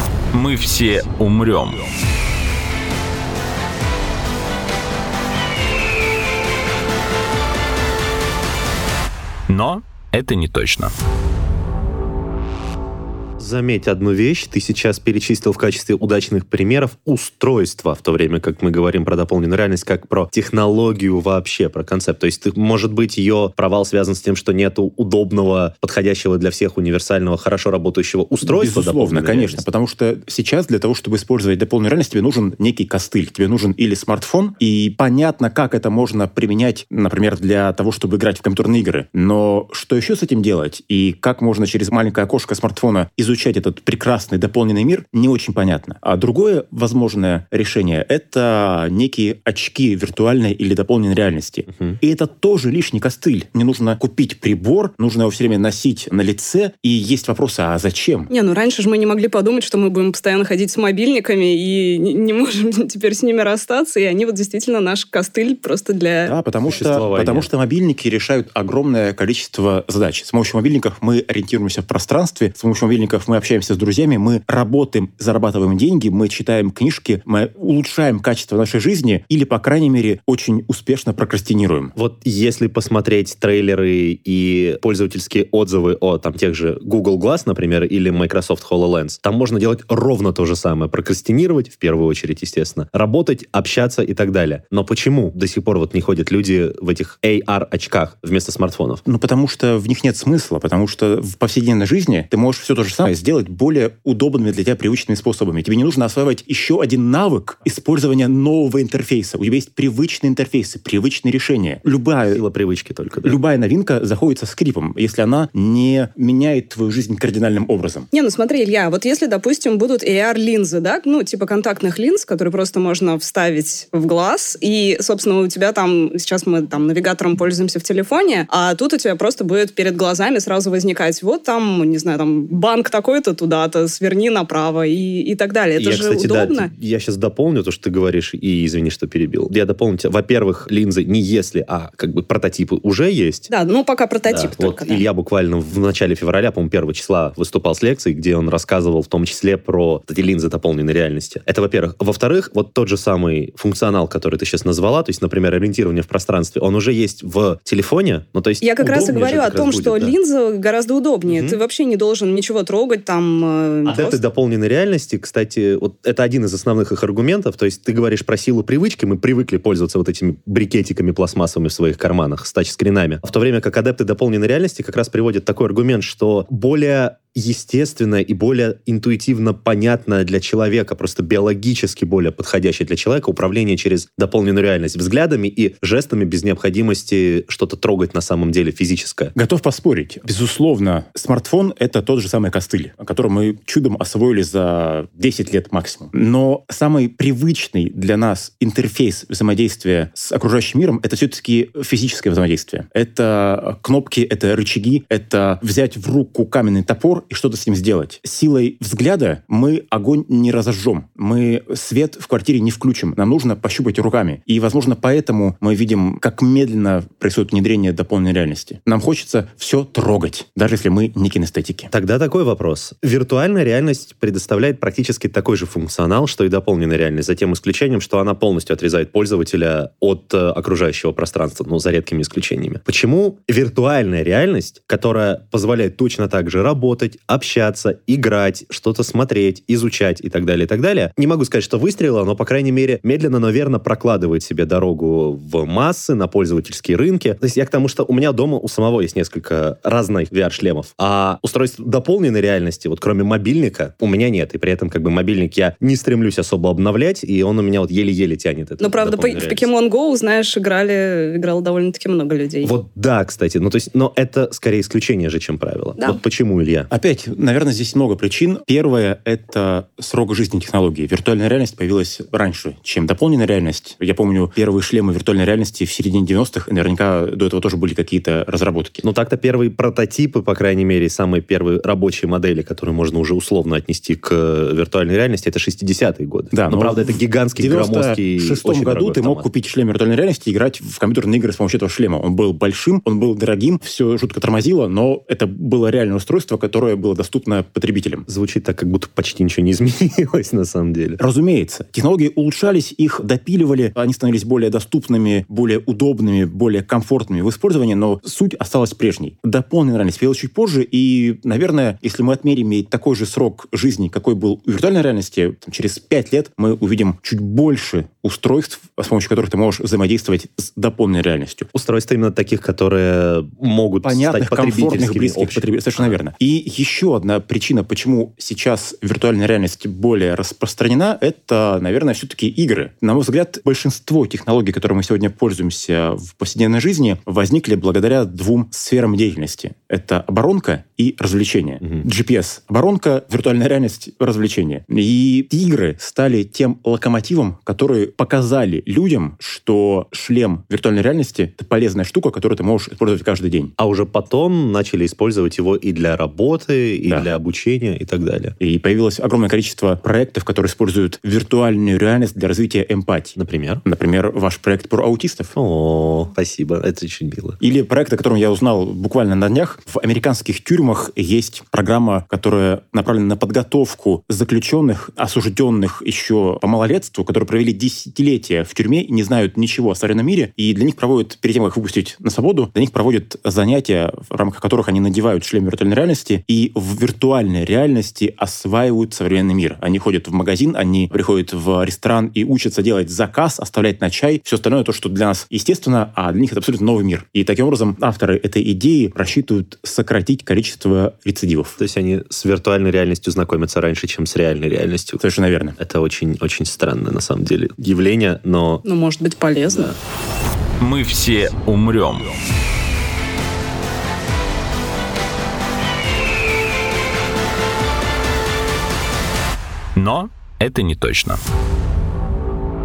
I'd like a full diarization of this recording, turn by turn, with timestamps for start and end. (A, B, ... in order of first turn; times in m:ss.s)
0:00.3-0:01.9 A
0:09.5-0:10.9 A
0:13.4-0:29.6 B
0:28.4-0:58.3 C
0:51.7-0:52.0 B
0:58.3-1:06.4 D
1:06.2-1:21.9 C
1:06.7-1:07.5 B
1:22.0-1:39.0 B
1:39.0-1:52.4 C
1:52.3-1:53.4 B
1:53.2-1:58.1 C
1:58.1-2:16.7 D
2:15.8-2:23.5 B
2:23.5-2:25.0 D
2:24.3-2:40.1 B
2:38.6-2:44.2 D
2:41.3-2:41.6 B
2:43.8-3:09.3 B
3:09.4-3:41.9 C
3:41.9-4:19.7 B
4:18.8-4:22.7 D
4:22.6-4:26.9 B
4:26.9-4:39.0 C
4:39.0-4:49.5 B
4:46.5-4:58.2 C
4:58.3-5:01.2 B
5:01.2-5:21.7 C
5:21.7-5:26.2 B
5:24.0-5:53.7 C
5:53.8-5:58.6 B
5:58.6-6:05.5 C
6:03.4-6:03.8 B
6:05.5-6:07.6 B
6:07.6-6:41.8 C
6:41.8-6:45.2 B
6:45.2-6:45.8 C
6:45.8-6:48.8 B
6:48.8-6:50.0 D
6:49.7-6:50.0 B
6:50.8-6:52.4 A
7:00.0-7:01.4 A